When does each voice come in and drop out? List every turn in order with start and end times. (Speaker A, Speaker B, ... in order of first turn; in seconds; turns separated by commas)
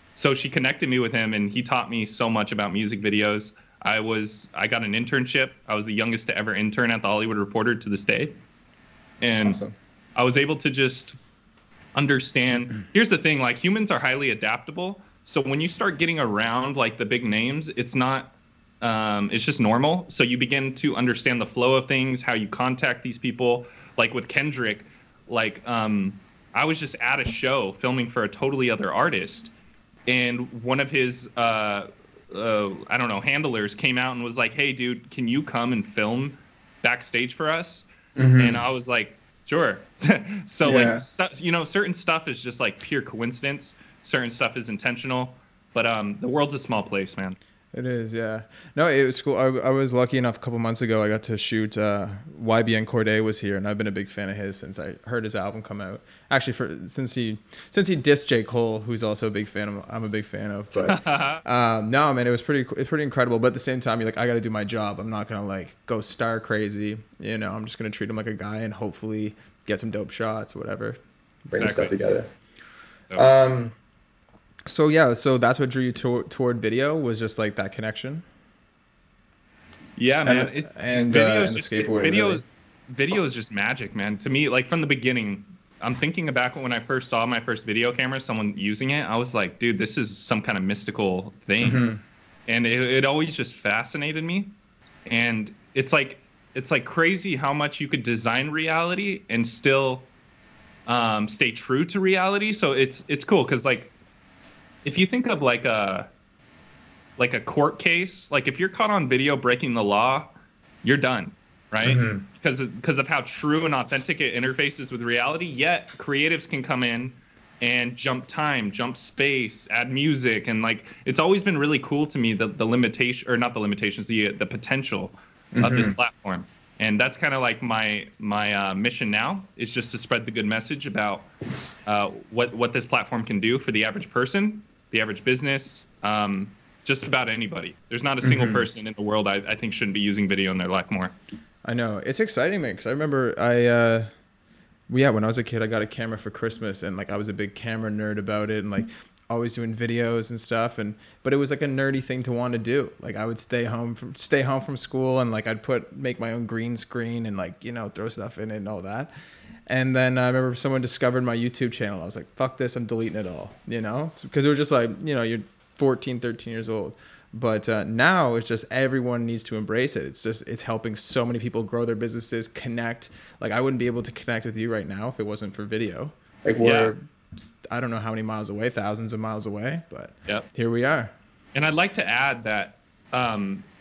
Speaker A: 0.1-8.3, Speaker A: 9.2-9.6, Speaker B: 9.4-9.7, Speaker A: 10.2-11.2, Speaker A: 11.9-29.5, Speaker A: 30.1-37.9, Speaker B: 38.1-38.6, Speaker A: 38.4-47.4, Speaker B: 40.6-41.1, Speaker B: 47.7-72.3, Speaker A: 60.9-61.4, Speaker A: 71.5-71.9, Speaker B: 73.1-73.8, Speaker B: 74.7-78.2, Speaker A: 80.0-91.8, Speaker B: 80.2-82.4, Speaker B: 91.6-92.0, Speaker A: 92.5-94.5, Speaker A: 95.1-100.1, Speaker A: 100.9-103.9, Speaker A: 104.8-106.1, Speaker A: 107.2-110.3, Speaker A: 110.8-131.3, Speaker B: 111.8-112.2, Speaker B: 125.5-125.9, Speaker A: 131.8-141.1, Speaker B: 138.2-138.6, Speaker B: 141.6-144.1, Speaker B: 144.9-159.1, Speaker B: 159.7-181.1, Speaker A: 176.6-176.9, Speaker A: 181.5-183.6